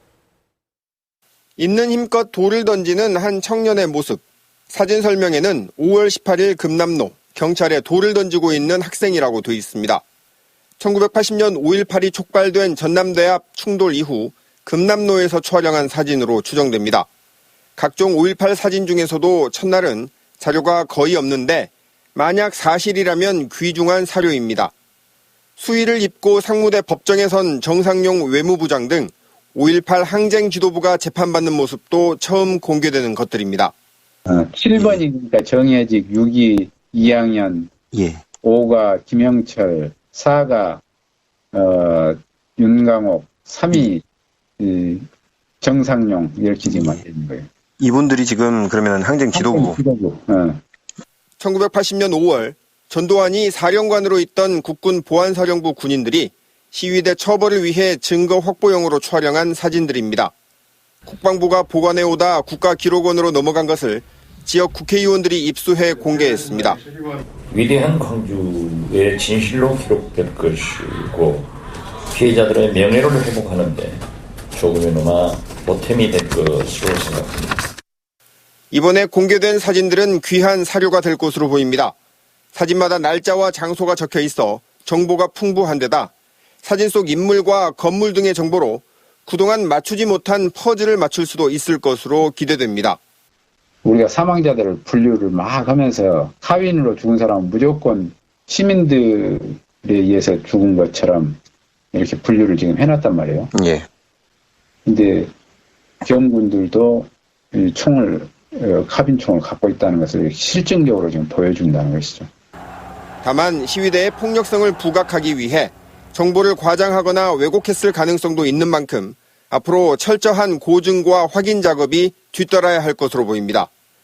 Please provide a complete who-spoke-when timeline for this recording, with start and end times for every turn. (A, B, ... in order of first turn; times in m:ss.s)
0:01.6-0:10.0 A
0:10.8-0:17.1 A
0:17.8-0:24.7 A
0:25.6-0:33.7 A
0:34.3-0:37.7 B
0:37.9-0:38.2 C
0:38.4-0:40.8 B
0:41.5-0:44.0 B
0:44.6-0:45.1 B
0:45.6-0:47.5 B
0:46.7-0:47.0 C
0:47.8-0:49.8 C
0:49.3-0:50.6 B
0:51.4-1:00.3 A
1:01.1-1:06.8 A
1:07.5-1:11.5 D
1:12.1-1:17.6 D
1:18.7-1:21.9 A
1:22.5-1:26.1 A
1:26.6-1:33.0 A
1:33.8-1:41.4 B
1:41.9-1:43.5 B
1:43.6-1:43.9 C
1:44.9-1:45.3 B
1:46.0-1:52.3 B
1:53.2-2:03.7 A